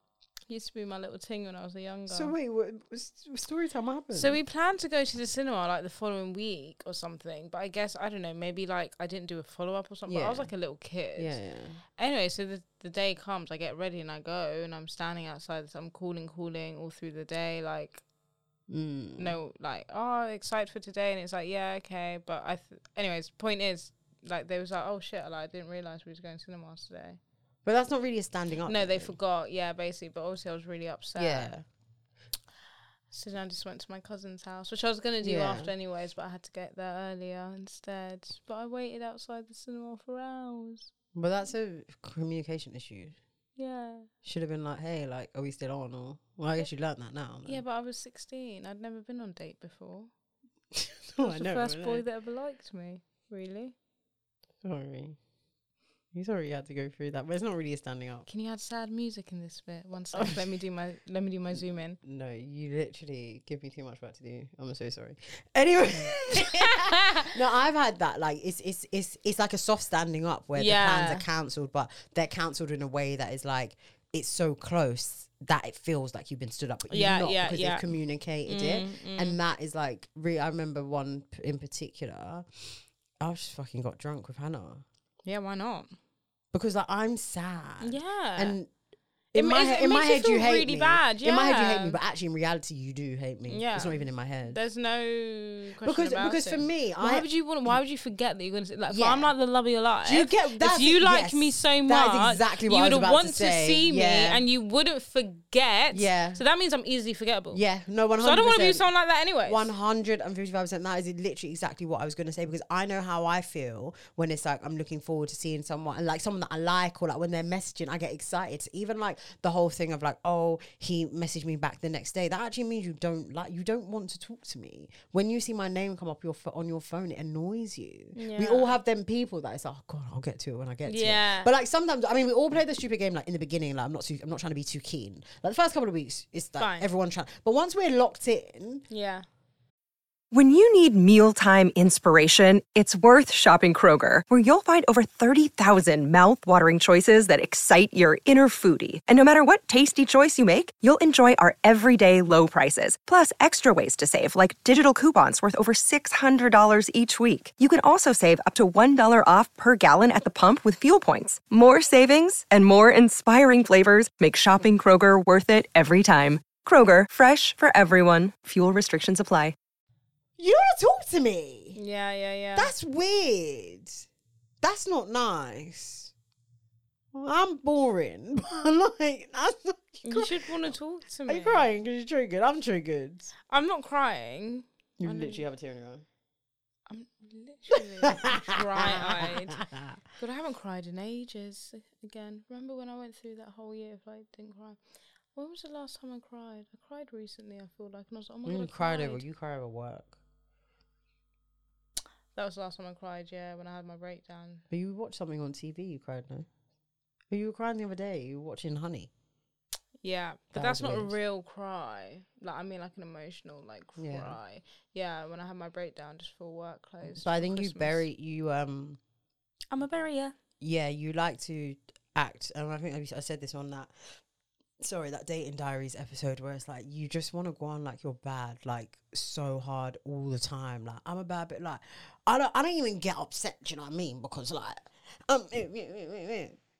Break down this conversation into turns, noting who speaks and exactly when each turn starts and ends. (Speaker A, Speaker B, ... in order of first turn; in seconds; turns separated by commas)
Speaker A: 0.5-2.3, Speaker B: 2.1-4.4, Speaker A: 4.1-11.4, Speaker B: 10.1-10.5, Speaker B: 11.2-11.8, Speaker A: 12.0-18.0, Speaker B: 18.7-19.4, Speaker A: 19.2-27.2, Speaker B: 27.6-29.1, Speaker A: 28.7-31.5, Speaker B: 31.1-31.6, Speaker A: 33.1-40.9, Speaker B: 35.2-35.7, Speaker B: 41.1-43.1, Speaker A: 43.6-44.1, Speaker B: 44.2-47.6, Speaker A: 47.4-50.1, Speaker B: 50.8-52.0, Speaker A: 51.2-53.7, Speaker B: 54.6-55.2, Speaker B: 56.1-58.3, Speaker A: 58.3-62.0, Speaker B: 60.1-60.4, Speaker B: 62.0-82.5, Speaker A: 66.3-67.3, Speaker A: 70.5-71.2, Speaker A: 76.9-77.9, Speaker A: 78.5-79.4, Speaker B: 83.2-84.8, Speaker A: 85.2-85.9, Speaker B: 86.5-88.7, Speaker A: 87.8-88.6, Speaker B: 89.3-94.6, Speaker A: 89.3-92.0, Speaker A: 93.5-107.6, Speaker B: 95.8-97.3, Speaker B: 98.9-99.3, Speaker B: 100.0-104.4, Speaker B: 105.9-106.4, Speaker B: 107.5-108.9, Speaker A: 108.2-109.7, Speaker B: 109.4-138.8, Speaker A: 128.1-128.8, Speaker A: 130.8-131.5, Speaker A: 136.6-136.9, Speaker A: 138.9-139.2, Speaker C: 140.3-169.5, Speaker B: 170.4-171.8, Speaker A: 171.7-172.7, Speaker B: 172.6-174.1, Speaker B: 174.6-176.1, Speaker B: 177.1-180.7, Speaker A: 180.0-181.7, Speaker B: 181.2-183.3, Speaker A: 183.5-185.4, Speaker B: 185.0-186.0, Speaker A: 186.9-189.6, Speaker B: 188.0-190.0, Speaker A: 190.2-194.8, Speaker A: 195.3-199.2, Speaker B: 198.4-200.2, Speaker A: 202.3-204.6, Speaker B: 204.7-206.5, Speaker B: 207.3-209.1, Speaker A: 210.0-218.0, Speaker B: 210.5-211.1, Speaker B: 214.0-214.4, Speaker B: 217.0-219.0, Speaker A: 219.7-220.3, Speaker B: 220.6-223.9, Speaker B: 224.8-236.6